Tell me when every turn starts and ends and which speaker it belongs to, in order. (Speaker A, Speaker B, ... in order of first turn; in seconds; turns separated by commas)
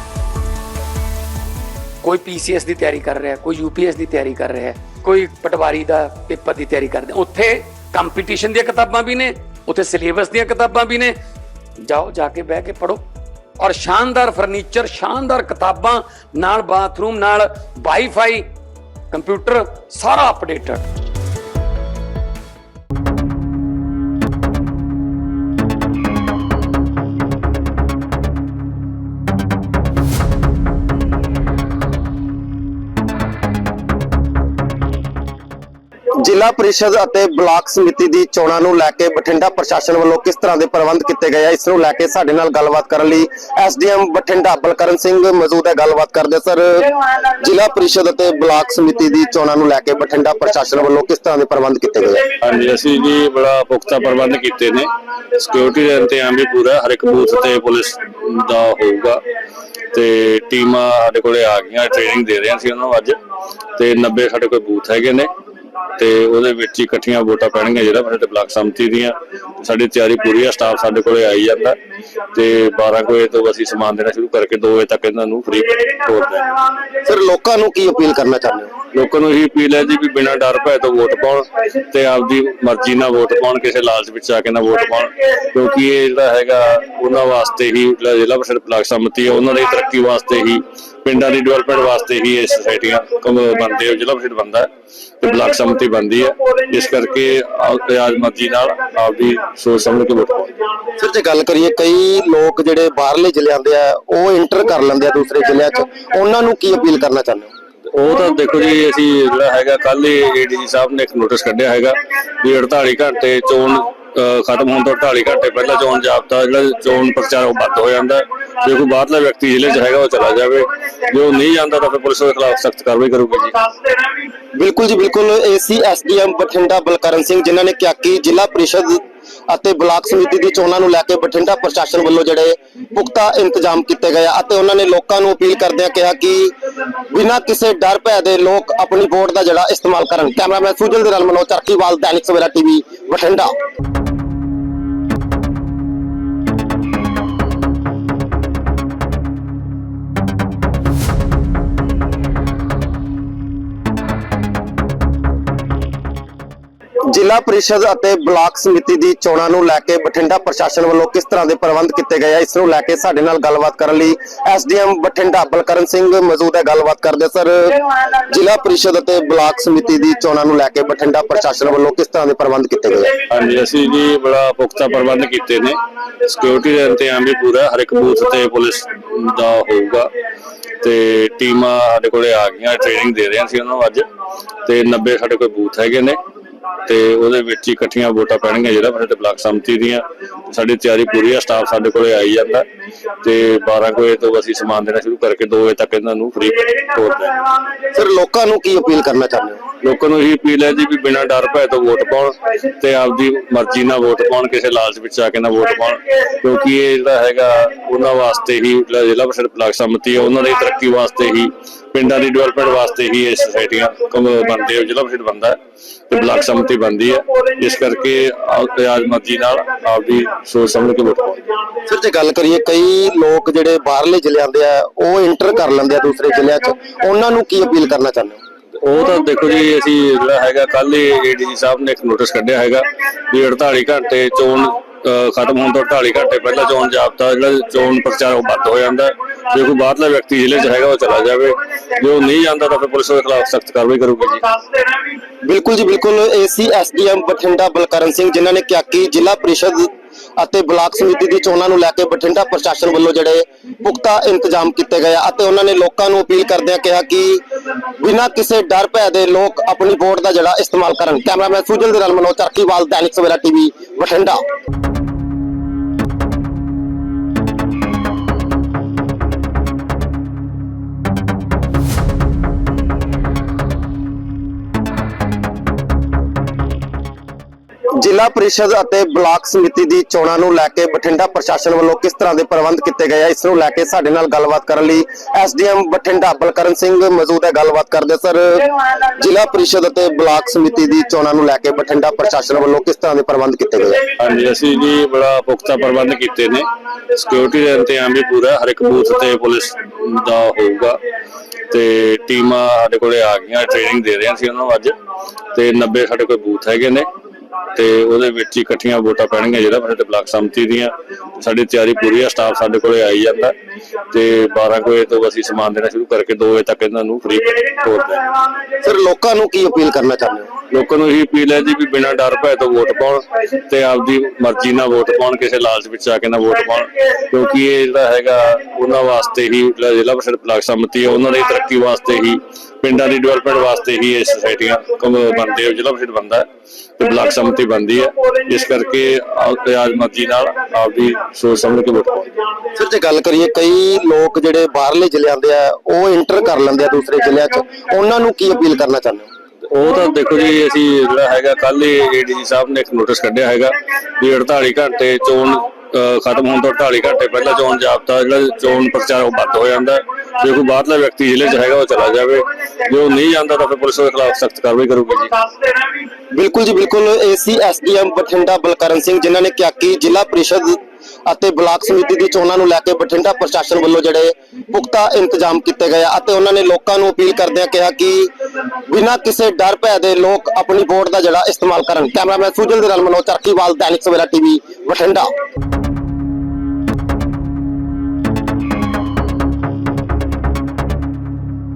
Speaker A: 2.0-11.2, Speaker A: 11.8-13.1, Speaker A: 13.6-18.5, Speaker A: 19.1-20.8, Speaker B: 36.1-52.3, Speaker C: 52.4-59.2, Speaker C: 59.9-63.2, Speaker C: 63.8-65.3, Speaker C: 66.0-71.8, Speaker C: 72.3-76.5, Speaker B: 77.0-78.7, Speaker C: 78.9-100.6, Speaker B: 101.0-107.5, Speaker C: 107.9-123.6, Speaker B: 124.5-136.5, Speaker B: 137.1-143.5, Speaker B: 157.1-173.2, Speaker C: 173.3-180.1, Speaker C: 180.8-184.1, Speaker C: 184.6-186.2, Speaker C: 186.8-192.7, Speaker C: 193.2-197.4, Speaker B: 197.9-199.6, Speaker C: 199.8-221.5, Speaker B: 221.8-228.4, Speaker C: 228.8-244.4, Speaker B: 245.4-257.4, Speaker B: 258.0-264.4, Speaker B: 277.9-294.0, Speaker C: 294.2-301.0, Speaker C: 301.7-305.0, Speaker C: 305.5-307.1, Speaker C: 307.7-313.6, Speaker C: 314.1-318.3, Speaker B: 318.8-320.5, Speaker C: 320.7-342.4, Speaker B: 342.7-349.3, Speaker C: 349.7-365.4, Speaker B: 366.3-378.3, Speaker B: 378.9-385.3